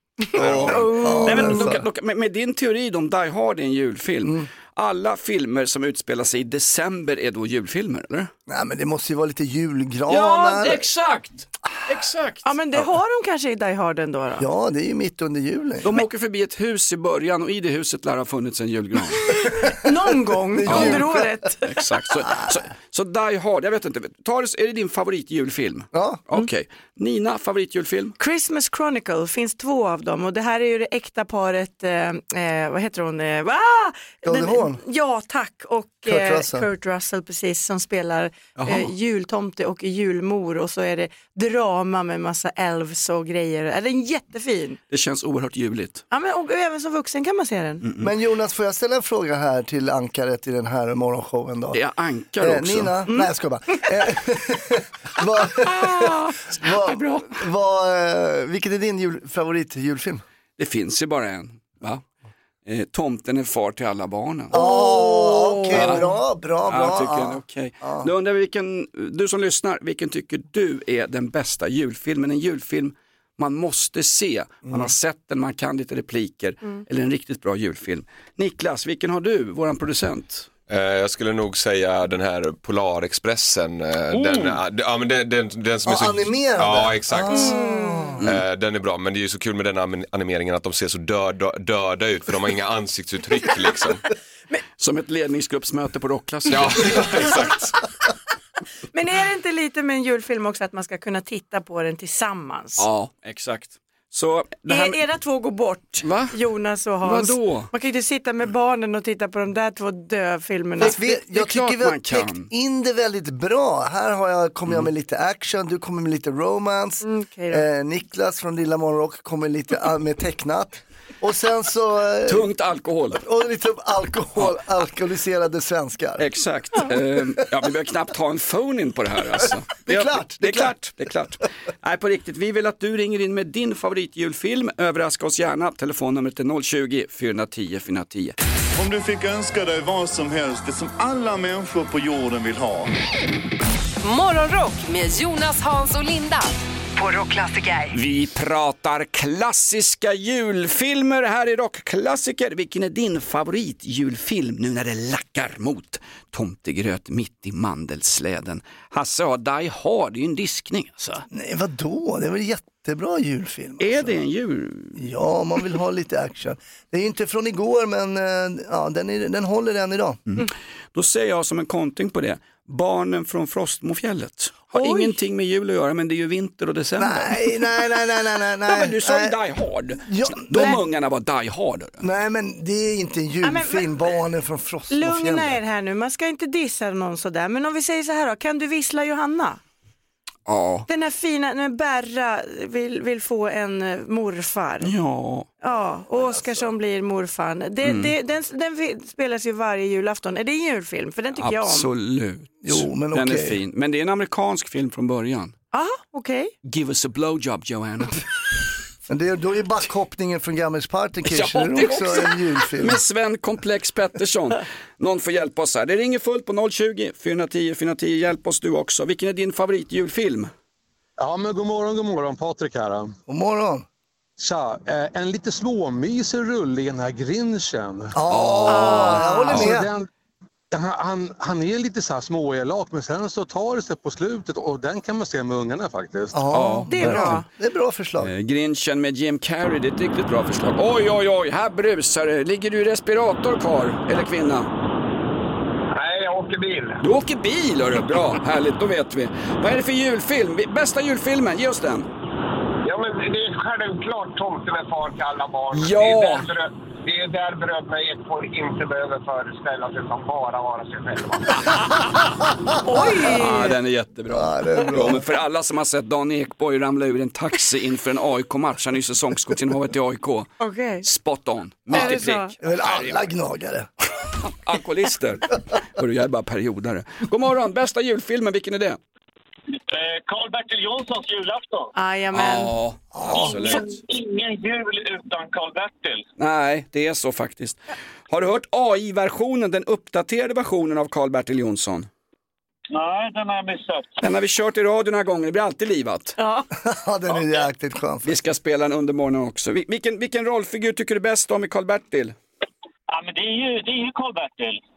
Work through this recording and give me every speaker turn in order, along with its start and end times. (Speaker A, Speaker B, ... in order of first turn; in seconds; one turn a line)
Speaker A: 0.4-8.3
Speaker B: 0.4-0.9
Speaker C: 0.4-1.8
Speaker D: 0.7-1.7
Speaker C: 8.5-10.8
Speaker A: 10.1-12.5
Speaker D: 12.4-14.5
Speaker C: 14.4-16.0
Speaker A: 15.8-19.4
Speaker D: 19.3-21.8
Speaker C: 20.5-21.3
Speaker A: 20.7-21.1
Speaker A: 21.6-28.2
Speaker C: 25.9-26.2
Speaker D: 28.2-44.8
Speaker C: 34.2-34.8
Speaker C: 36.1-36.7
Speaker A: 38.6-38.9
Speaker A: 44.9-46.0
Speaker D: 46.1-47.8
Speaker A: 47.8-48.1
Speaker C: 48.0-51.8
Speaker A: 51.7-52.9
Speaker C: 52.4-60.2
Speaker A: 55.7-57.4
Speaker A: 60.6-62.0
Speaker A: 62.7-66.1
Speaker C: 64.5-68.1
Speaker A: 66.7-80.5
Speaker C: 74.7-74.9
Speaker B: 80.7-87.5
Speaker C: 85.9-88.3
Speaker D: 87.4-88.0
Speaker B: 88.2-94.0
Speaker A: 94.8-97.4
Speaker B: 96.5-97.6
Speaker D: 98.9-102.9
Speaker A: 102.8-105.0
Speaker D: 104.7-111.0
Speaker A: 106.0-106.4
Speaker A: 107.0-107.7
Speaker C: 110.8-122.5
Speaker A: 110.8-112.5
Speaker D: 117.0-117.6
Speaker A: 122.3-123.2
Speaker C: 123.2-126.3
Speaker A: 126.2-138.4
Speaker C: 129.8-130.8
Speaker E: 138.8-142.9
Speaker F: 144.0-147.9
Speaker A: 147.9-161.2
Speaker C: 161.3-164.2
Speaker A: 163.8-165.0
Speaker C: 165.0-170.2
Speaker A: 170.3-177.7
Speaker D: 174.8-175.2
Speaker C: 177.0-179.4
Speaker A: 178.6-182.0
Speaker C: 180.0-180.8
Speaker C: 182.0-185.6
Speaker D: 183.4-184.1
Speaker D: 184.9-189.6
Speaker A: 190.5-190.9
Speaker D: 190.9-194.9
Speaker A: 194.8-195.5
Speaker D: 195.6-201.9
Speaker A: 197.8-198.1
Speaker A: 201.4-205.5
Speaker C: 202.6-203.6
Speaker D: 205.7-206.5
Speaker A: 206.7-208.2
Speaker C: 209.1-213.0
Speaker A: 211.2-220.5
Speaker G: 221.2-223.1
Speaker C: 223.3-223.9
Speaker G: 224.4-228.2
Speaker C: 228.2-229.9
Speaker A: 228.3-229.7
Speaker D: 228.7-229.7
Speaker G: 229.5-230.1
Speaker G: 230.7-236.4
Speaker C: 236.3-238.3
Speaker A: 236.5-237.4
Speaker D: 236.9-237.5
Speaker A: 238.2-244.7
Speaker A: 247.0-252.1
Speaker H: 252.9-255.2
Speaker I: 255.3-256.6
Speaker A: 255.7-256.5
Speaker H: 257.1-260.0
Speaker D: 262.8-263.7
Speaker A: 263.1-270.5
Speaker C: 264.3-265.2
Speaker D: 270.6-271.1
Speaker A: 271.0-273.3
Speaker C: 271.9-273.9
Speaker D: 271.9-272.5
Speaker A: 274.4-279.0
Speaker I: 279.9-281.9
Speaker D: 281.9-282.7
Speaker A: 282.3-283.9
Speaker C: 283.1-283.7
Speaker I: 283.5-286.2
Speaker A: 286.4-292.1
Speaker I: 292.9-294.1
Speaker A: 294.2-296.4
Speaker D: 296.4-296.7
Speaker C: 296.8-298.4
Speaker A: 298.2-302.4
Speaker I: 303.1-304.8